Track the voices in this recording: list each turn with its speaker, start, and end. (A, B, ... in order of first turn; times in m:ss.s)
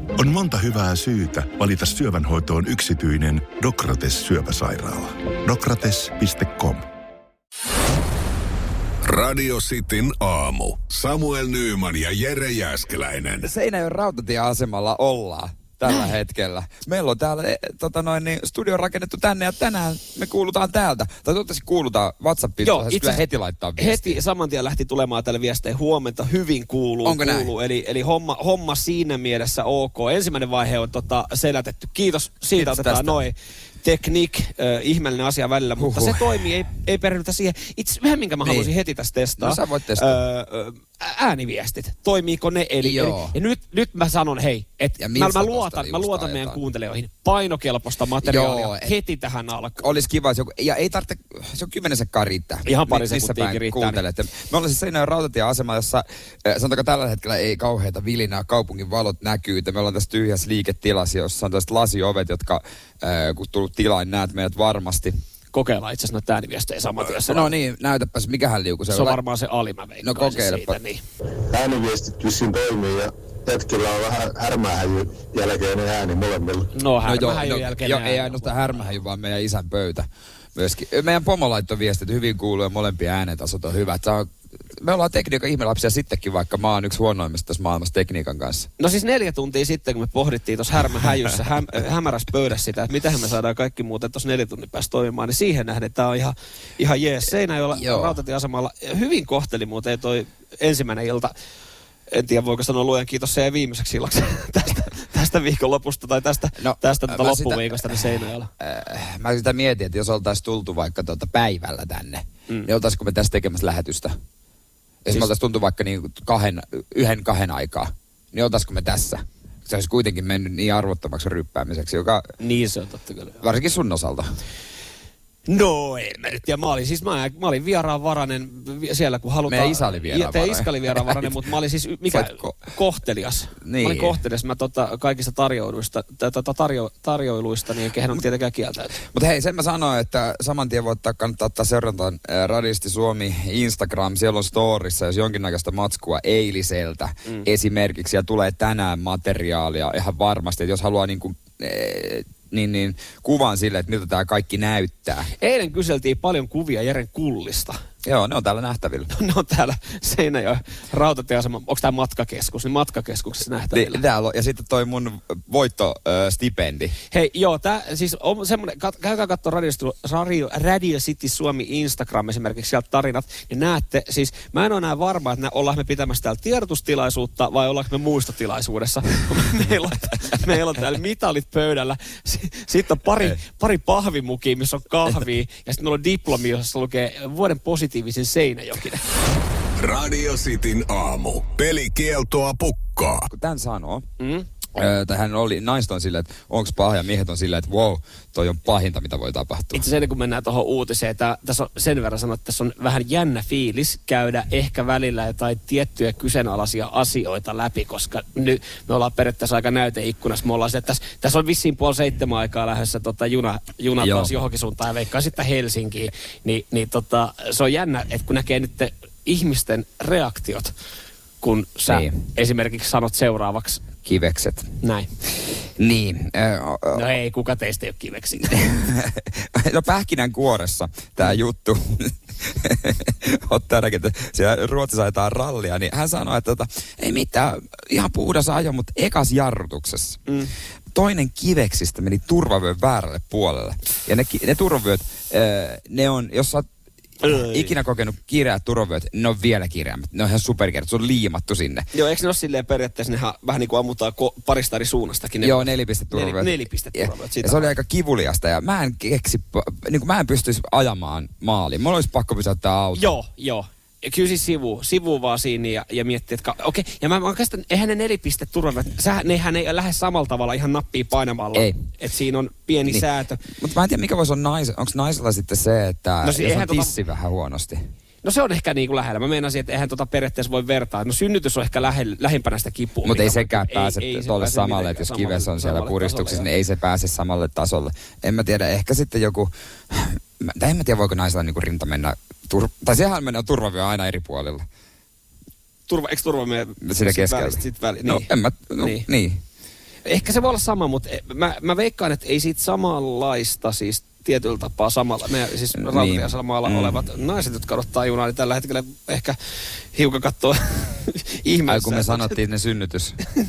0:00.2-0:06.9 A
0:09.0-0:13.5 B
0:13.4-0:24.2 C
0:22.6-0:23.2 D
0:23.8-0:49.9 D
0:27.0-0:27.5 C
0:32.6-0:33.2 C
0:35.8-0:36.5 C
0:38.4-0:38.7 C
0:39.4-0:40.2 C
0:42.8-0:43.3 C
0:45.0-0:46.6 C
0:48.2-0:48.9 C
0:49.8-1:05.1 C
0:52.7-0:54.0 D
1:05.5-1:07.5 D
1:07.1-1:09.2 C
1:08.9-1:11.0 D
1:10.0-1:10.8 C
1:11.5-1:16.7 E
1:16.7-1:18.6 D
1:17.0-1:28.7 C
1:28.8-1:41.3 D
1:37.7-1:38.2 C
1:42.1-1:48.5 D
1:46.6-1:48.0 C
1:48.6-1:54.2 C
1:55.0-2:02.3 C
2:02.4-2:03.4 D
2:03.4-2:04.3 C
2:05.5-2:19.0 D
2:09.5-2:11.4 C
2:12.1-2:12.6 C
2:13.6-2:14.2 C
2:19.1-2:35.3 C
2:35.4-2:37.8 D
2:38.0-2:39.1 C
2:39.1-2:44.0 D
2:43.7-2:47.0 C
2:47.1-3:09.0 D
3:09.8-3:13.3 B
3:13.3-3:14.1 C
3:14.2-3:14.5 D
3:14.7-3:19.8 C
3:19.8-3:40.7 D
3:34.0-3:34.3 C
3:41.4-3:43.8 D
3:41.9-3:42.2 C
3:44.0-3:44.7 C
3:44.8-3:45.1 D
3:45.8-3:47.0 C
3:46.9-3:48.6 D
3:48.4-4:00.2 C
4:00.9-4:06.7 C
4:07.2-4:07.7 D
4:07.2-4:11.9 C
4:11.9-4:17.8 D
4:15.4-4:23.1 C
4:23.0-4:33.4 D
4:31.6-4:31.8 C
4:32.8-4:37.8 C
4:36.2-4:36.9 D
4:38.2-4:46.5 D
4:43.0-4:54.7 C
4:55.9-4:58.3 D
4:56.8-4:59.4 C
4:58.8-4:59.1 D
5:00.1-5:09.4 D
5:05.8-5:07.0 C
5:09.9-5:12.4 D
5:11.7-5:13.2 C